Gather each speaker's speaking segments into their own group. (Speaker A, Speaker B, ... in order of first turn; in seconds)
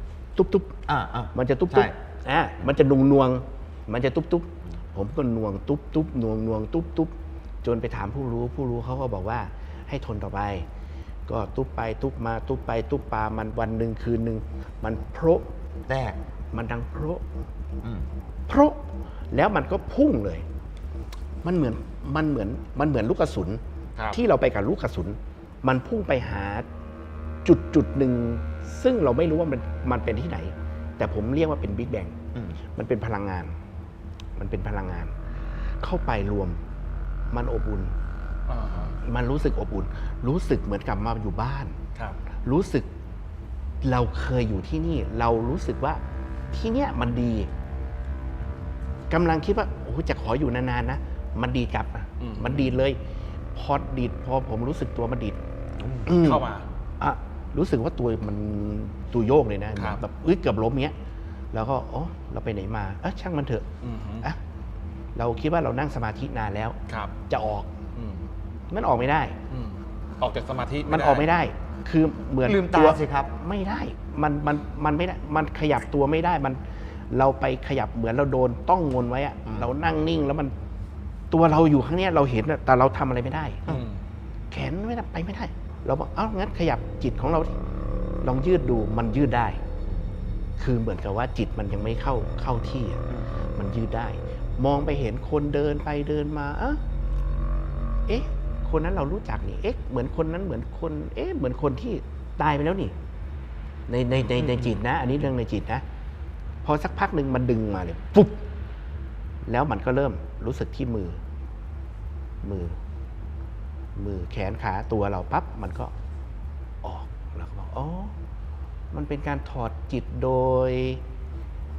Speaker A: 0.3-0.7, 1.3-10.7, 11.3-15.5, 16.5-17.2, 18.5-18.8, 19.3-20.4, 21.4-26.6, 27.4-32.2, 32.7-33.5, 34.4-35.1, 35.8-36.6, 37.3-37.9, 39.0-41.8, 42.4-42.9, 43.8-46.0, 46.5-47.5, 49.1-53.0, 53.5-55.4, 56.0-56.5, 57.0-60.9, 61.5-63.7, 65.1-67.7, 68.7-69.4, 70.8-76.6, 77.1-80.5, 81.3-83.8, 84.5-87.5, 88.2-89.6, 90.6-93.0, 93.5-96.8, 98.1-102.9, 103.9-105.8, 106.6-108.4, 109.4-111.2, 112.4-112.8, 114.0-115.9, 116.8-118.1, 118.9-121.0
Speaker B: 0.9-1.9, 15.9-16.2, 17.8-18.1, 72.4-73.3
Speaker C: 38.5-39.0, 52.2-52.8, 56.0-56.6, 59.8-60.0, 63.8-64.3, 66.9-67.1, 67.9-68.2, 69.5-71.3, 83.7-84.0, 104.4-104.7